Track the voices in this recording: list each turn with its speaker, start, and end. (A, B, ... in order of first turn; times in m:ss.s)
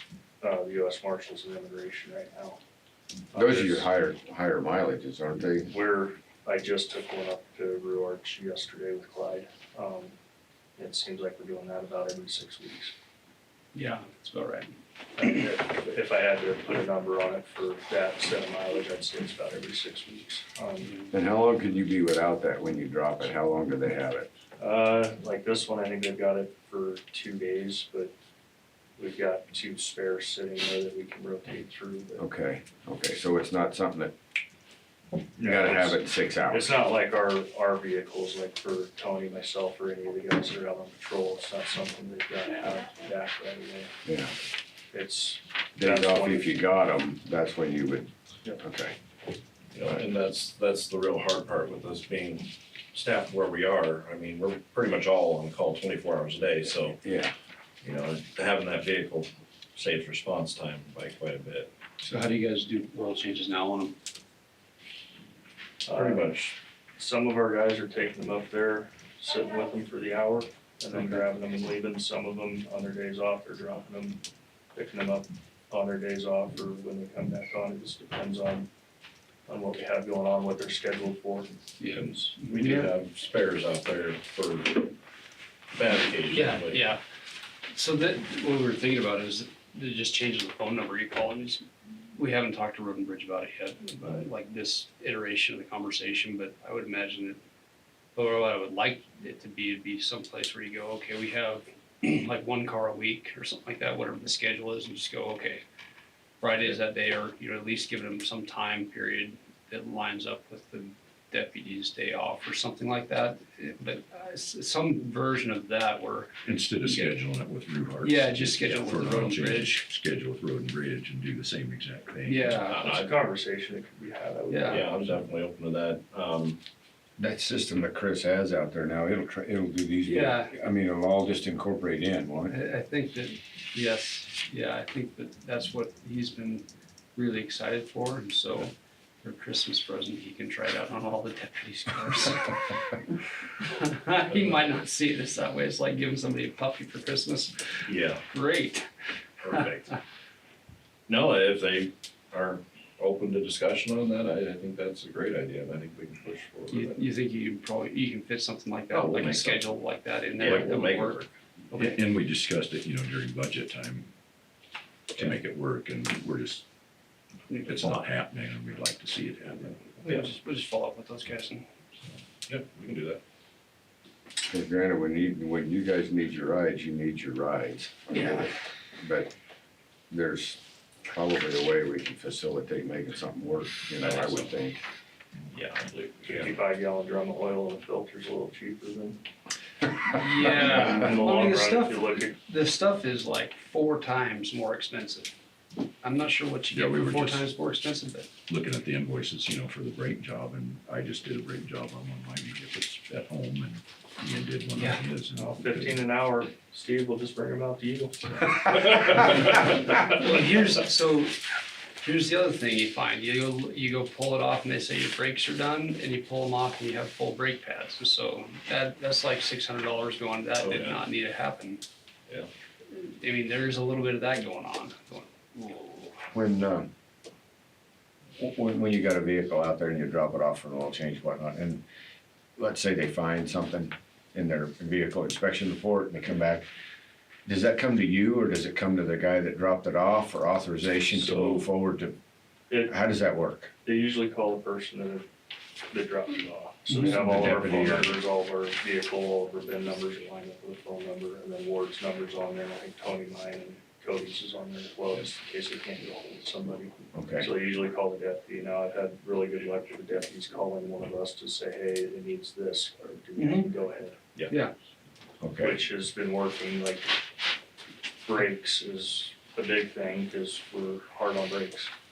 0:00.4-0:02.6 A
0:03.3-0:03.9 A
0:03.3-0:05.7 B
0:05.7-0:10.1 A
0:10.8-0:12.9 A
0:13.7-0:14.7 C
0:15.2-0:20.9 A
0:20.8-0:21.1 C
0:21.1-0:24.3 B
0:24.6-0:28.1 A
0:29.0-0:32.2 A
0:32.2-0:34.1 B
0:35.4-0:43.9 A
0:35.4-0:36.7 B
0:44.0-0:44.3 B
0:44.9-0:46.6 A
0:45.8-0:49.0 B
0:49.7-0:57.0 D
0:57.0-0:57.3 B
0:57.8-1:01.7 D
1:02.0-1:03.9 C
1:05.8-1:06.3 A
1:05.9-1:06.6 D
1:07.0-1:14.2 A
1:14.7-1:18.7 A
1:19.5-1:22.4 A
1:21.8-1:22.9 C
1:22.4-1:24.9 D
1:25.7-1:26.9 D
1:26.3-1:27.0 C
1:27.7-1:37.4 C
1:38.1-1:45.6 C
1:46.4-1:57.2 C
1:56.4-2:02.6 E
1:58.0-1:59.8 C
2:02.2-2:03.0 C
2:02.6-2:03.2 D
2:02.8-2:04.9 A
2:04.5-2:04.8 C
2:04.7-2:06.6 D
2:07.2-2:12.6 B
2:10.0-2:10.6 C
2:12.5-2:22.8 C
2:23.6-2:28.9 C
2:24.3-2:24.8 D
2:27.8-2:28.2 D
2:29.4-2:30.0 D
2:31.1-2:37.1 D
2:36.7-2:42.0 C
2:38.9-2:39.7 D
2:40.4-2:41.3 D
2:40.4-2:40.8 E
2:41.7-2:44.1 E
2:45.1-2:46.6 E
2:47.5-2:48.0 C
2:47.6-2:49.8 E
2:49.7-2:51.7 C
2:52.5-2:53.2 D
2:54.5-2:59.3 B
2:58.1-2:58.5 C
3:00.1-3:04.8 B
3:05.5-3:06.6 D
3:06.3-3:09.2 A
3:10.0-3:15.3 C
3:10.4-3:12.4 A
3:16.0-3:18.3 C
3:16.7-3:17.5 E
3:18.5-3:26.1 E
3:25.3-3:28.6 A
3:29.1-3:31.4 C
3:32.0-3:41.8 C
3:40.6-3:41.0 D
3:42.9-3:46.1 C
3:46.3-3:46.9 B
3:48.4-3:51.8 B
3:52.6-3:56.7 B
3:57.4-4:02.2 B
4:01.1-4:01.6 A
4:02.7-4:02.9 A
4:02.8-4:03.7 B
4:03.8-4:05.2 A
4:05.9-4:24.2 A
4:06.9-4:08.2 B
4:17.1-4:17.5 B
4:23.4-4:23.7 C
4:25.4-4:25.8 B
4:25.6-4:27.1 A
4:28.2-4:31.9 A